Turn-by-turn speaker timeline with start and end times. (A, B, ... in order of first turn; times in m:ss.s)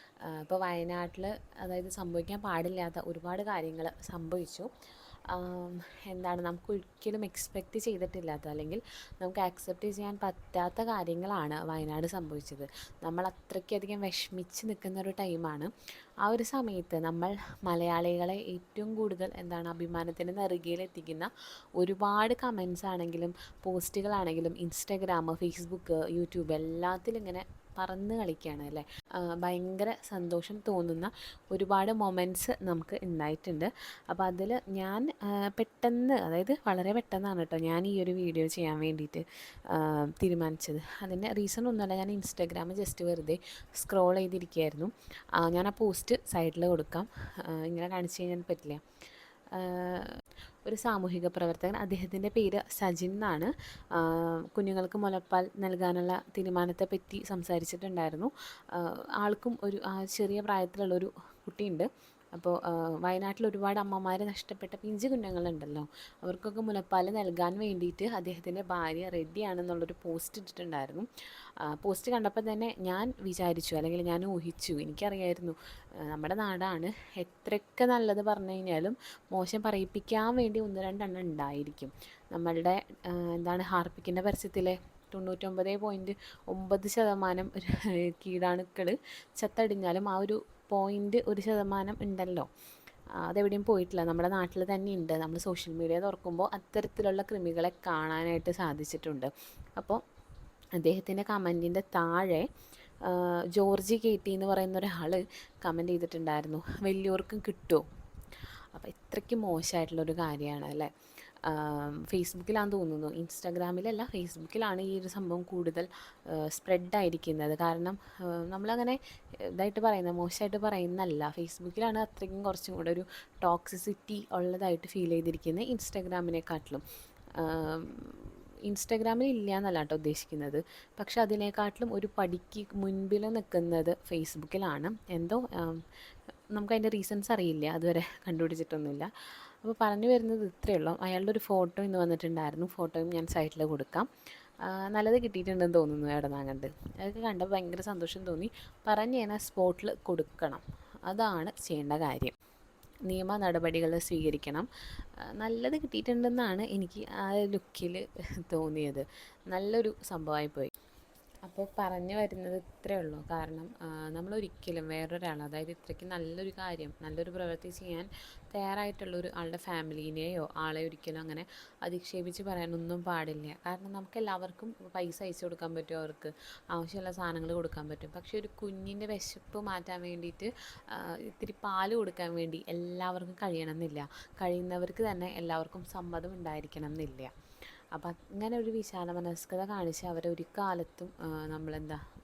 0:00.2-0:04.7 A
0:05.3-0:15.7 A
0:16.2-0:48.8 A
0:49.5-1:11.1 A
1:11.6-1:32.5 A
1:33.2-1:40.0 A
1:40.8-1:42.5 A
1:43.0-1:47.8 A
1:48.7-1:50.9 A
1:51.4-2:06.8 A
2:07.4-2:15.8 A
2:16.5-2:19.1 A
2:19.6-2:24.1 A
2:24.6-2:32.3 A
2:33.1-2:34.7 A
2:35.3-2:40.7 A
2:41.4-3:07.3 A
3:07.9-3:12.0 A